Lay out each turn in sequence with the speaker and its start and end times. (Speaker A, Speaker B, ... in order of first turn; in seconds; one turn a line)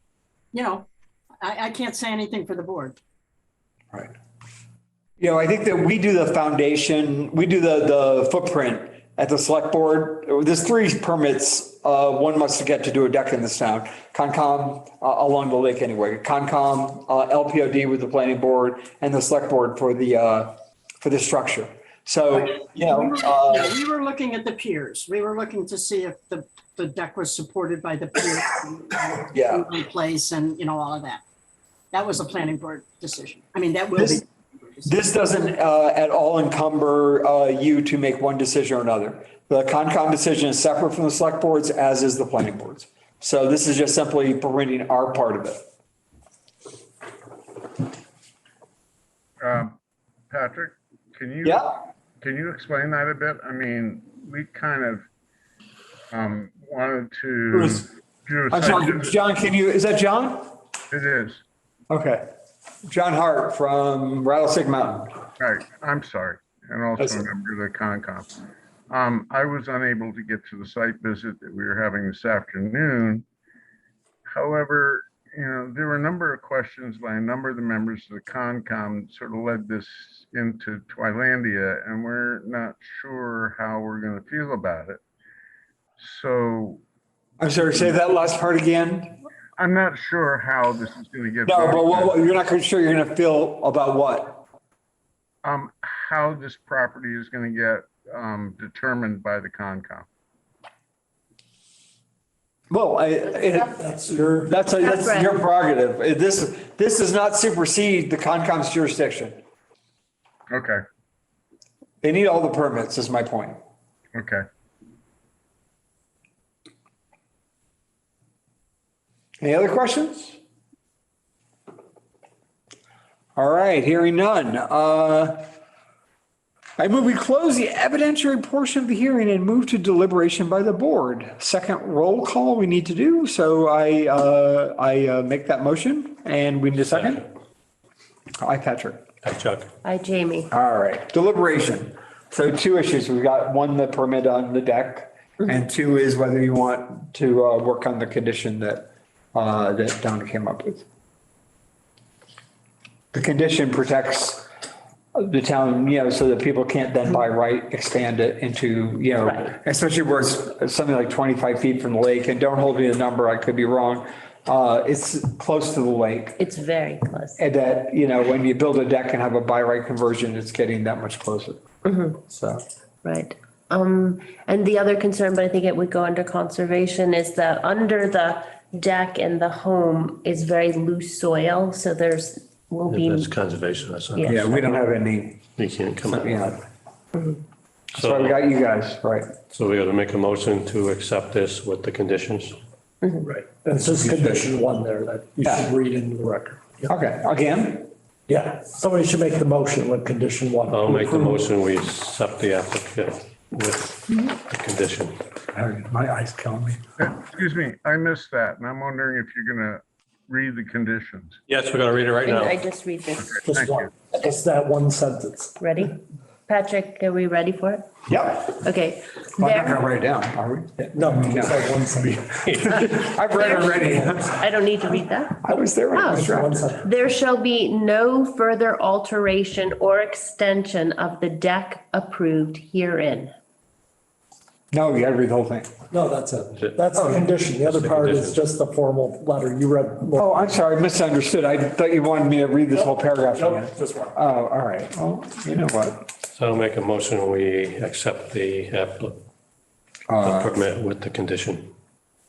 Speaker A: 0.5-0.9
Speaker A: 1.4-3.0
Speaker B: 5.2-23.7
Speaker A: 22.3-31.2
Speaker B: 29.3-29.7
Speaker A: 31.9-34.9
Speaker B: 34.9-45.6
Speaker C: 49.4-49.8
Speaker C: 50.3-55.0
Speaker B: 51.4-51.8
Speaker C: 56.1-59.1
Speaker B: 57.5-57.9
Speaker B: 58.5-60.5
Speaker C: 60.9-61.4
Speaker B: 61.9-62.3
Speaker B: 62.9-65.2
Speaker C: 65.4-68.3
Speaker C: 68.9-73.2
Speaker C: 74.3-85.0
Speaker C: 86.0-86.8
Speaker B: 87.4-89.2
Speaker C: 89.6-92.2
Speaker B: 91.5-94.4
Speaker C: 95.4-100.1
Speaker B: 102.7-109.4
Speaker D: 103.7-104.6
Speaker E: 104.8-105.4
Speaker C: 110.5-110.8
Speaker B: 112.0-113.6
Speaker C: 114.2-114.4
Speaker B: 119.4-120.4
Speaker B: 123.4-125.5
Speaker B: 126.8-137.2
Speaker F: 136.9-137.2
Speaker B: 138.4-139.1
Speaker F: 139.2-139.7
Speaker E: 139.8-140.5
Speaker B: 140.5-150.8
Speaker B: 153.1-154.5
Speaker B: 155.2-166.4
Speaker E: 166.4-167.4
Speaker B: 167.4-171.6
Speaker E: 171.8-172.2
Speaker B: 172.2-172.6
Speaker E: 173.0-183.3
Speaker F: 182.9-184.6
Speaker E: 184.2-184.5
Speaker B: 184.2-185.4
Speaker F: 185.6-186.6
Speaker B: 186.1-186.6
Speaker B: 187.9-189.3
Speaker F: 187.9-188.4
Speaker F: 189.5-192.6
Speaker D: 193.5-196.9
Speaker B: 194.0-194.4
Speaker B: 195.4-195.7
Speaker B: 196.9-197.9
Speaker D: 198.3-201.4
Speaker F: 200.7-205.2
Speaker B: 205.5-206.8
Speaker C: 207.0-211.4
Speaker F: 211.5-212.6
Speaker E: 212.2-213.4
Speaker C: 213.2-213.9
Speaker D: 213.4-215.6
Speaker E: 215.6-219.8
Speaker B: 218.1-218.5
Speaker B: 219.4-221.7
Speaker D: 220.9-222.5
Speaker B: 222.5-224.3
Speaker E: 223.3-226.3
Speaker D: 223.8-224.1
Speaker B: 225.4-226.7
Speaker D: 226.1-226.9
Speaker E: 226.8-233.3
Speaker B: 234.7-235.7
Speaker D: 235.9-240.3
Speaker F: 236.6-238.4
Speaker B: 240.2-246.1
Speaker D: 243.3-244.1
Speaker F: 246.3-249.2
Speaker B: 250.1-250.6
Speaker F: 250.2-251.7